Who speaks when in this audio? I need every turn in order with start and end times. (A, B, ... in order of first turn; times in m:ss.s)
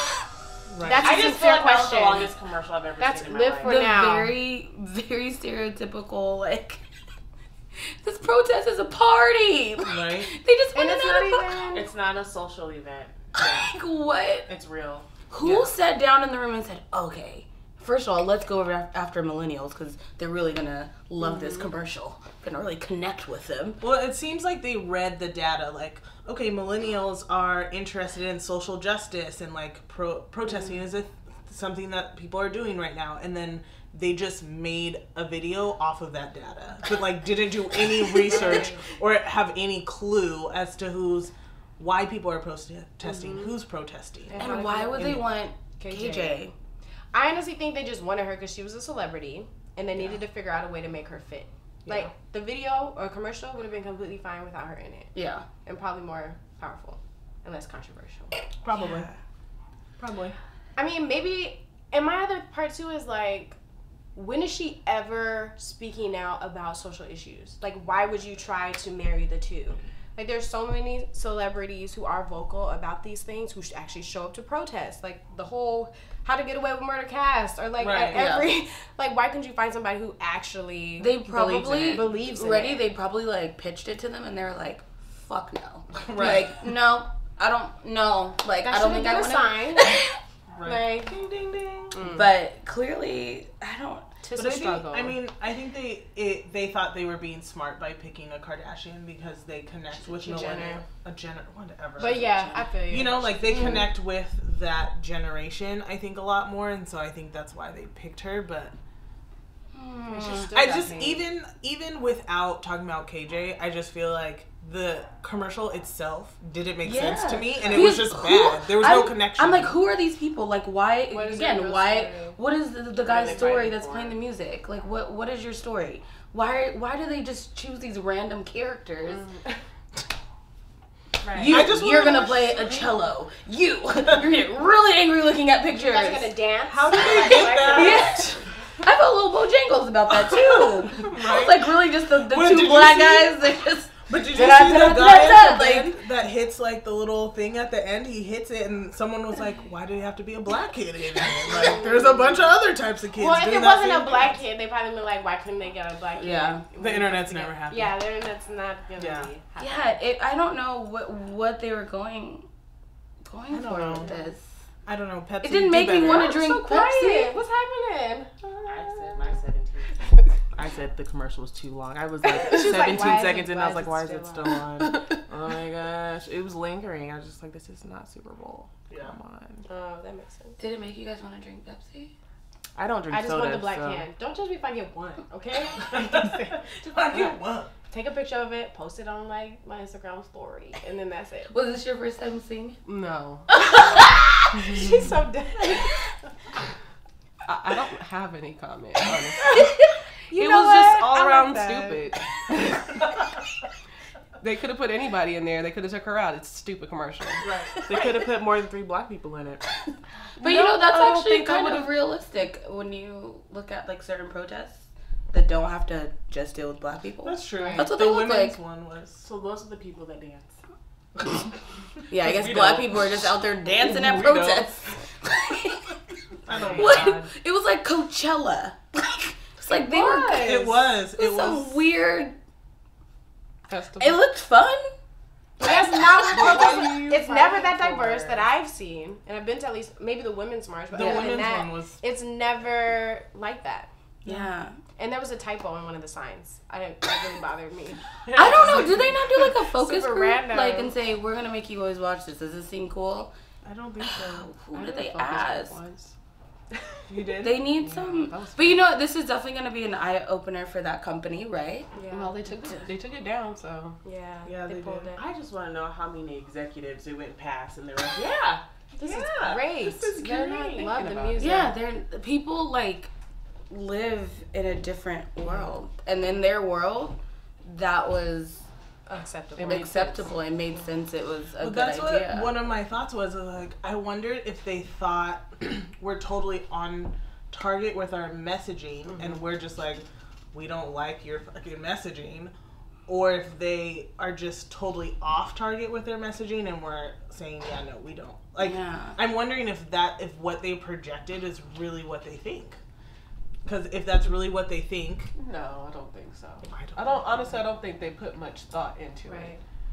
0:00.7-0:01.3 A
0:00.8-0:02.3 B
0:01.0-0:03.8 C
0:03.0-0:04.3 B
0:03.6-0:06.8 D
0:07.8-0:11.7 D
0:09.8-0:10.3 A
0:10.7-0:11.8 B
0:11.7-0:13.6 C
0:13.4-0:14.5 D
0:14.4-0:15.6 C
0:15.3-0:23.8 D
0:21.2-0:21.7 B
0:23.8-0:44.4 A
0:38.1-0:38.8 B
0:43.0-0:43.5 B
0:44.3-0:46.4 B
0:44.4-0:46.5 D
0:47.1-0:55.1 B
0:51.8-0:52.1 A
0:55.1-0:55.4 D
0:55.6-0:58.3 B
0:58.6-0:59.1 A
0:58.8-0:59.1 D
1:00.0-1:00.4 A
1:00.8-1:03.6 B
1:04.1-1:22.8 B
1:17.8-1:18.2 A
1:18.1-1:18.5 D
1:21.0-1:30.2 D
1:26.0-1:26.6 A
1:28.7-1:30.0 B
1:30.5-1:32.0 A
1:30.6-1:31.1 B
1:31.9-1:32.3 B
1:32.1-1:34.1 D
1:34.2-1:35.2 B
1:34.3-1:48.7 A
1:40.1-1:40.8 B
1:42.0-1:43.8 B
1:42.0-1:42.6 D
1:49.7-1:50.5 D
1:50.1-1:51.2 B
1:50.5-1:59.8 A
1:56.8-2:09.3 D
2:01.1-2:02.4 B
2:03.0-2:04.2 C
2:03.3-2:03.5 B
2:09.1-2:09.4 B
2:11.2-2:11.6 B
2:11.3-2:16.3 D
2:11.4-2:12.9 A
2:15.7-2:18.3 B
2:16.7-2:18.2 A
2:17.5-2:26.0 D
2:20.3-2:23.4 A
2:24.0-2:34.4 A
2:31.5-2:32.4 B
2:33.1-2:40.0 B
2:36.2-2:36.6 D
2:36.8-2:38.0 A
2:39.0-2:39.3 A
2:39.6-2:42.5 D
2:43.2-2:44.4 D
2:43.5-2:44.1 A
2:44.0-2:44.3 B
2:44.8-2:46.3 A
2:45.4-2:47.4 D
2:46.0-2:49.4 B
2:48.6-2:59.6 C
2:52.2-2:54.6 B
2:52.3-2:52.8 E
2:54.8-2:55.2 E
2:58.9-2:59.1 A
2:59.6-3:00.6 B
3:00.6-3:02.1 D
3:02.7-3:04.1 C
3:03.1-3:07.3 B
3:05.9-3:07.7 A
3:07.9-3:11.5 B
3:11.5-3:12.8 D
3:12.8-3:13.7 E
3:13.5-3:15.9 B
3:17.4-3:19.8 E
3:20.3-3:22.0 B
3:20.3-3:23.1 E
3:24.4-3:27.5 E
3:27.4-3:27.7 A
3:27.8-3:29.7 C
3:30.4-3:32.0 E
3:30.4-3:38.6 D
3:37.2-3:39.2 A
3:37.6-3:37.9 B
3:39.2-3:40.6 C
3:42.1-3:46.0 D
3:42.2-3:43.0 C
3:43.8-3:44.6 A
3:44.1-3:44.5 C
3:46.4-3:47.3 A
3:46.5-3:47.1 C
3:46.7-3:52.4 D
3:49.7-3:50.7 B
3:50.4-3:51.8 A
3:53.7-3:54.2 E
3:54.0-3:54.9 D
3:55.6-4:03.9 B
3:55.9-3:56.8 D
3:56.3-3:58.4 E
3:56.3-3:56.8 A
4:00.9-4:02.0 A
4:04.2-4:04.8 D
4:05.0-4:08.0 B
4:08.3-4:09.2 A
4:08.3-4:13.3 D
4:09.6-4:10.9 B
4:13.6-4:14.5 A
4:14.1-4:15.8 D
4:14.7-4:16.1 E
4:16.9-4:18.9 E
4:17.1-4:17.6 A
4:17.4-4:21.9 D
4:21.9-4:22.8 B
4:22.1-4:24.0 E
4:24.0-4:25.2 B
4:24.4-4:25.1 A
4:25.1-4:31.4 C
4:29.0-4:31.8 B
4:31.4-4:33.1 D
4:33.7-4:38.6 D
4:39.0-4:40.3 B
4:39.6-4:40.2 E
4:39.6-4:42.6 D
4:41.6-4:52.5 A
4:53.1-5:02.8 A
4:58.6-4:59.2 D
5:03.6-5:05.3 A
5:05.3-5:09.6 E
5:06.6-5:07.6 A
5:09.2-5:09.6 B